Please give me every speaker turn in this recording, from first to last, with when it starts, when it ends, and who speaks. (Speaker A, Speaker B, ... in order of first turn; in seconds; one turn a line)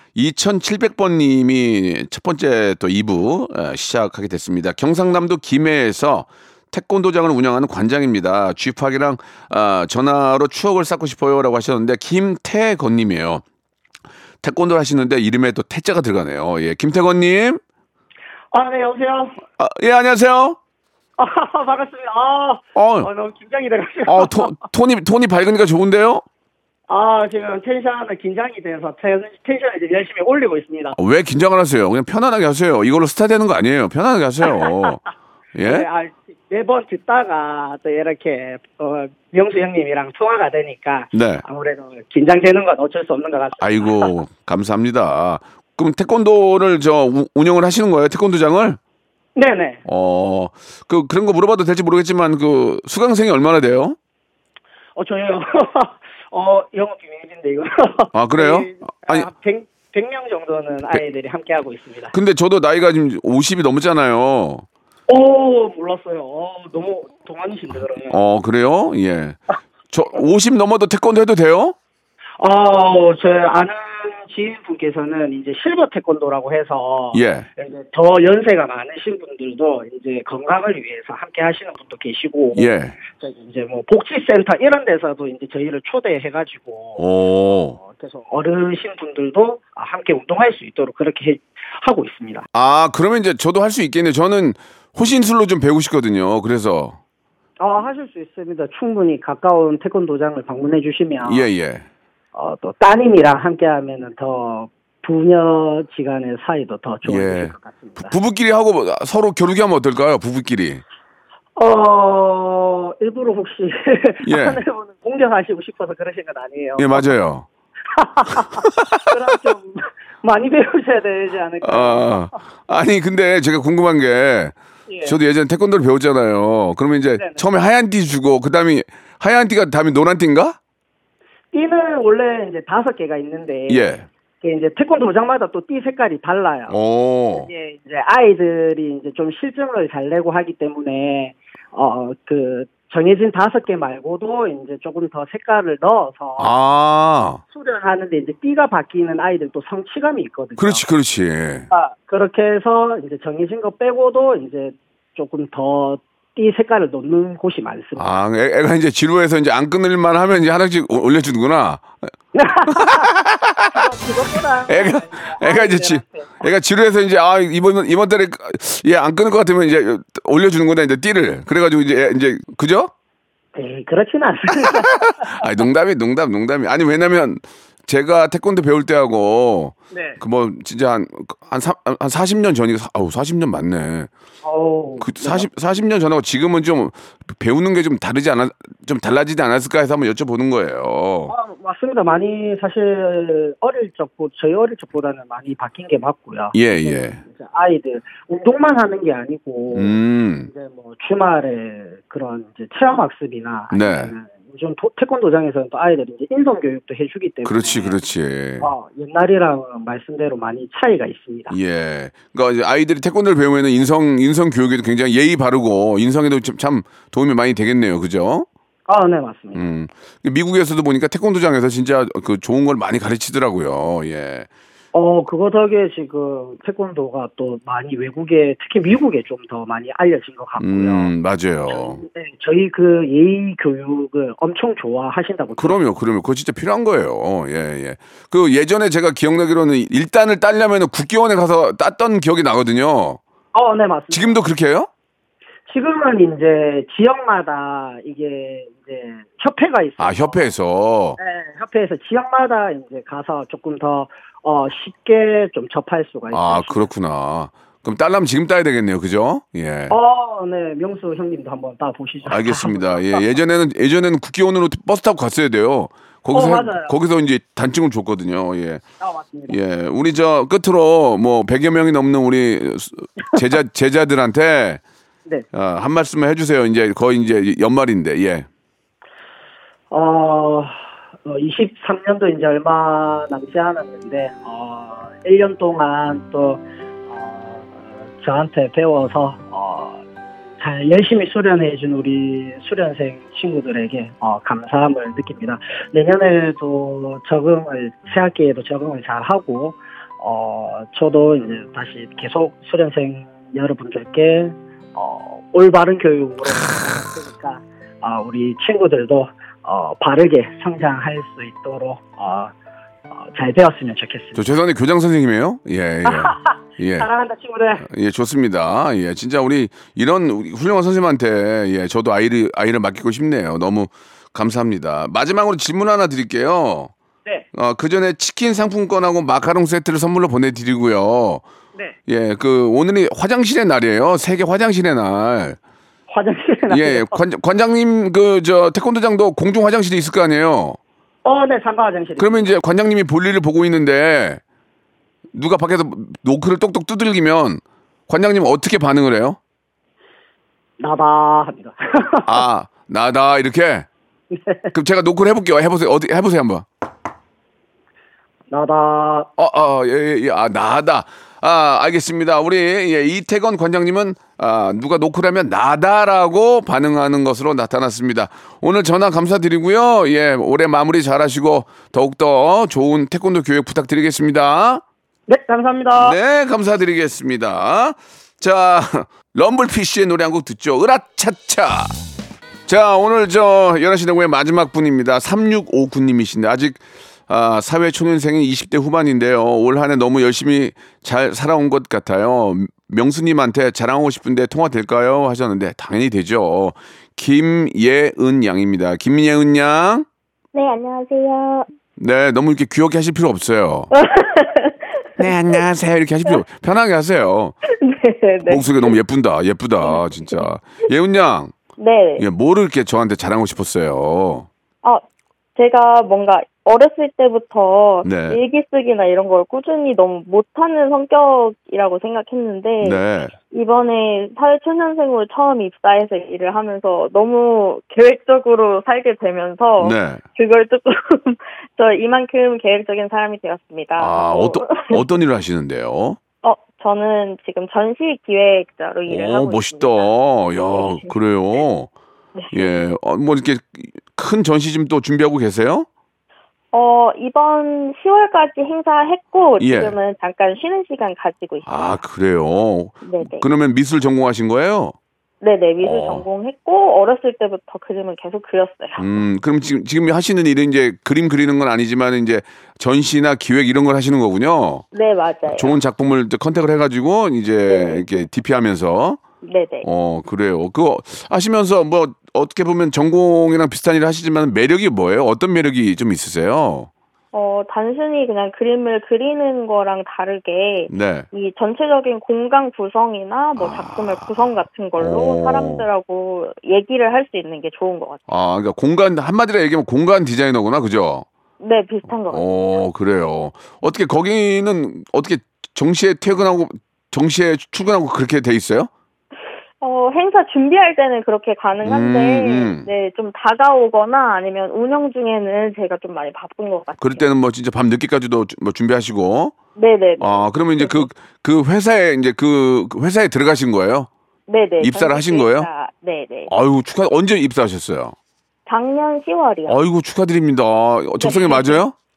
Speaker A: 0.1-13.4
Speaker A: 14.4-17.6
Speaker B: 18.5-19.4
Speaker A: 19.6-20.6
Speaker B: 21.2-24.6
Speaker A: 22.8-23.1
Speaker A: 24.1-26.2
Speaker B: 26.9-31.0
Speaker A: 31.0-35.0
Speaker A: 35.5-35.9
Speaker B: 35.6-44.1
Speaker A: 41.1-41.4
Speaker A: 43.6-48.8
Speaker B: 49.4-49.8
Speaker A: 49.9-54.0
Speaker B: 55.0-62.1
Speaker A: 58.1-59.3
Speaker A: 62.1-64.7
Speaker B: 65.1-68.2
Speaker A: 68.1-71.8
Speaker B: 72.4-92.5
Speaker A: 77.1-77.5
Speaker A: 82.5-83.0
Speaker A: 87.0-87.8
Speaker A: 92.5-97.0
Speaker B: 97.6-101.5
Speaker A: 101.2-101.9
Speaker B: 102.3-108.1
Speaker A: 107.0-110.8
Speaker B: 111.6-117.0
Speaker A: 114.2-114.6
Speaker A: 116.8-117.5
Speaker B: 117.9-122.4
Speaker A: 118.6-119.0
Speaker A: 121.6-130.6
Speaker B: 124.9-125.2
Speaker B: 127.2-127.5
Speaker B: 131.5-136.8
Speaker A: 133.7-134.1
Speaker A: 136.7-137.5
Speaker B: 137.3-146.5
Speaker A: 146.4-147.4
Speaker B: 147.5-150.8
Speaker A: 150.6-151.7
Speaker B: 151.7-158.1
Speaker A: 158.0-161.9
Speaker B: 162.3-163.1
Speaker A: 162.7-163.8
Speaker B: 163.7-166.3
Speaker A: 164.7-172.9
Speaker B: 173.6-175.4
Speaker A: 174.6-184.1
Speaker B: 179.9-180.2
Speaker B: 184.4-185.5
Speaker A: 185.0-191.3
Speaker B: 191.3-208.0
Speaker A: 196.5-197.2
Speaker A: 199.7-200.5
Speaker A: 203.7-204.1
Speaker A: 207.4-208.7
Speaker B: 208.6-211.6
Speaker A: 211.5-218.5
Speaker B: 218.9-219.7
Speaker A: 219.6-224.5
Speaker B: 224.9-231.1
Speaker A: 230.6-232.0
Speaker B: 231.7-235.8
Speaker A: 235.6-243.2
Speaker B: 243.5-244.4
Speaker A: 244.1-244.9
Speaker B: 245.7-250.5
Speaker A: 250.0-251.2
Speaker B: 251.2-256.9
Speaker A: 256.3-259.9
Speaker B: 259.9-263.2
Speaker A: 262.3-268.8
Speaker B: 266.3-266.9
Speaker B: 269.0-269.6
Speaker A: 269.5-274.8
Speaker A: 275.5-278.5
Speaker B: 279.9-290.0
Speaker B: 290.6-312.5
Speaker B: 313.1-314.4
Speaker A: 314.4-317.1
Speaker B: 316.1-317.9
Speaker A: 317.8-326.9
Speaker A: 327.5-331.4
Speaker A: 332.1-335.6
Speaker B: 336.1-337.2
Speaker A: 336.7-340.8
Speaker B: 341.2-342.5
Speaker A: 342.2-344.4
Speaker A: 345.3-349.4
Speaker B: 350.8-352.4
Speaker A: 352.2-353.9
Speaker B: 354.3-354.7
Speaker A: 354.7-356.7
Speaker B: 358.5-359.3
Speaker A: 359.4-374.8
Speaker B: 375.3-376.2
Speaker A: 376.0-381.9
Speaker A: 382.7-400.1
Speaker C: 400.5-401.7
Speaker A: 402.0-403.9
Speaker C: 403.9-405.6
Speaker A: 405.2-407.6
Speaker C: 407.6-409.0
Speaker A: 408.4-411.5
Speaker C: 409.8-410.5
Speaker C: 411.8-412.3
Speaker A: 412.2-414.5
Speaker C: 415.6-435.0
Speaker A: 418.0-418.4
Speaker A: 422.8-423.3
Speaker A: 429.8-430.2
Speaker A: 434.0-436.2
Speaker C: 436.4-440.1
Speaker A: 439.1-441.9
Speaker C: 440.7-441.1
Speaker C: 442.4-442.7
Speaker A: 442.5-445.9
Speaker C: 446.7-451.9
Speaker A: 449.6-449.9
Speaker A: 451.6-454.9
Speaker C: 453.0-453.5
Speaker C: 455.4-459.1
Speaker A: 455.8-456.3
Speaker A: 459.0-464.8
Speaker C: 464.9-465.8
Speaker A: 465.5-469.2
Speaker C: 467.7-468.1
Speaker C: 469.4-469.9
Speaker A: 469.8-476.9
Speaker C: 477.3-488.2
Speaker A: 480.9-481.3
Speaker A: 483.6-485.9
Speaker A: 488.3-491.3
Speaker C: 491.6-492.8
Speaker A: 492.1-498.9
Speaker C: 499.8-507.3
Speaker A: 501.8-502.9
Speaker A: 507.0-509.6
Speaker C: 509.8-511.1
Speaker A: 510.2-514.1
Speaker C: 514.5-516.5
Speaker A: 514.8-515.7
Speaker A: 516.5-518.2
Speaker C: 518.7-519.8
Speaker A: 519.7-521.9
Speaker C: 521.2-521.8